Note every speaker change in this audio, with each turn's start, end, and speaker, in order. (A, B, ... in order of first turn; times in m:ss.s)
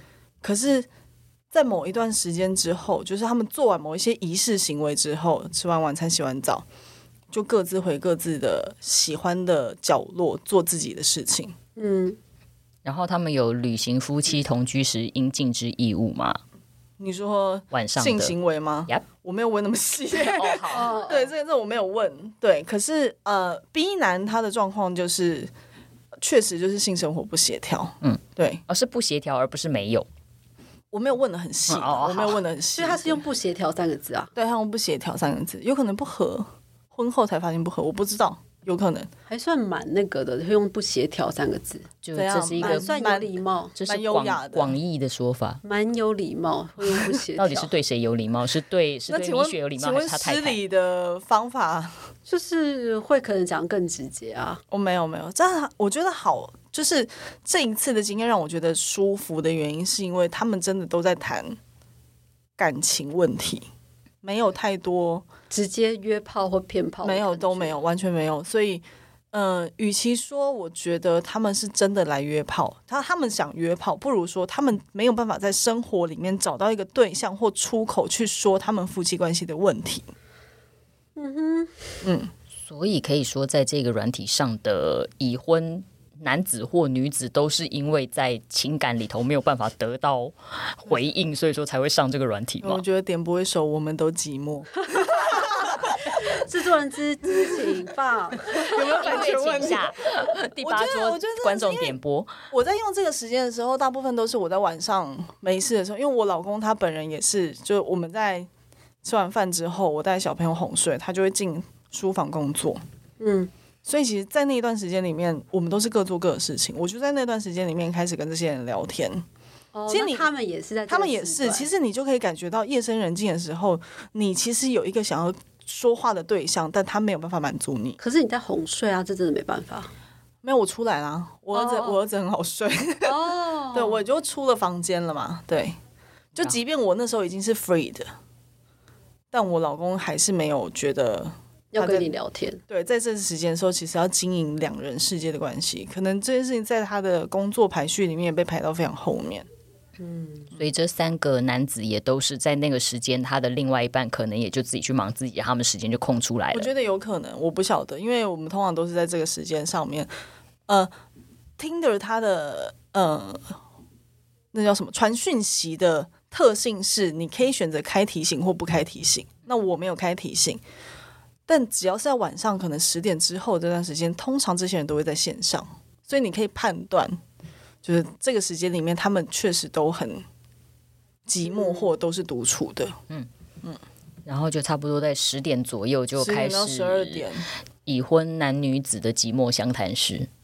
0:00.4-0:00.9 A
0:01.5-0:06.6 A
0:07.3-0:11.6 A
0:11.8-0:12.2 B
0:12.8-0:16.4 C
0:17.0-0:25.5 A
0:17.7-0:18.4 C
0:20.2-0:21.0 C
0:20.7-0:21.3 B
0:26.2-0:28.6 A
0:28.0-0:30.1 C
0:30.9-0:33.2 A
0:31.7-0:32.4 C
0:32.8-0:34.3 B
0:34.4-0:39.1 A
0:39.3-0:41.9 B
0:42.0-0:43.1 C
0:42.2-0:43.3 A
0:42.6-0:43.8 B
0:43.8-0:45.6 C
0:43.8-0:44.8 A
0:45.6-0:47.7 B
0:47.4-0:50.6 C
0:49.1-0:52.0 A
0:52.3-0:54.6 B
0:54.7-1:01.6 A
1:02.6-1:03.7 A
1:04.2-1:05.3 A
1:05.5-1:07.8 B
1:07.0-1:20.1 A
1:21.2-1:22.0 B
1:22.0-1:22.3 A
1:22.6-1:32.8 C
1:32.6-1:36.2 A
1:36.1-1:39.8 B
1:38.5-1:39.9 A
1:38.8-1:42.3 C
1:40.6-1:42.0 A
1:42.5-1:48.5 A
1:49.0-1:52.8 A
1:53.2-1:53.5 B
1:53.8-1:59.2 A
1:59.7-2:01.7 B
1:59.9-2:00.3 A
2:00.9-2:08.0 A
2:08.0-2:09.9 B
2:10.4-2:13.2 A
2:11.5-2:12.0 B
2:13.0-2:14.0 B
2:13.7-2:15.8 A
2:16.4-2:18.1 A
2:19.3-2:22.1 A
2:21.7-2:22.6 B
2:22.7-2:29.5 A
2:30.0-2:30.5 B
2:30.6-2:36.7 C
2:36.5-2:40.1 A
2:41.6-2:43.6 A
2:44.5-2:50.6 A
2:51.5-2:57.2 A
2:57.8-3:00.2 A
3:01.3-3:03.0 A
3:01.5-3:01.9 B
3:04.3-3:07.3 C
3:06.2-3:07.5 A
3:07.9-3:10.3 C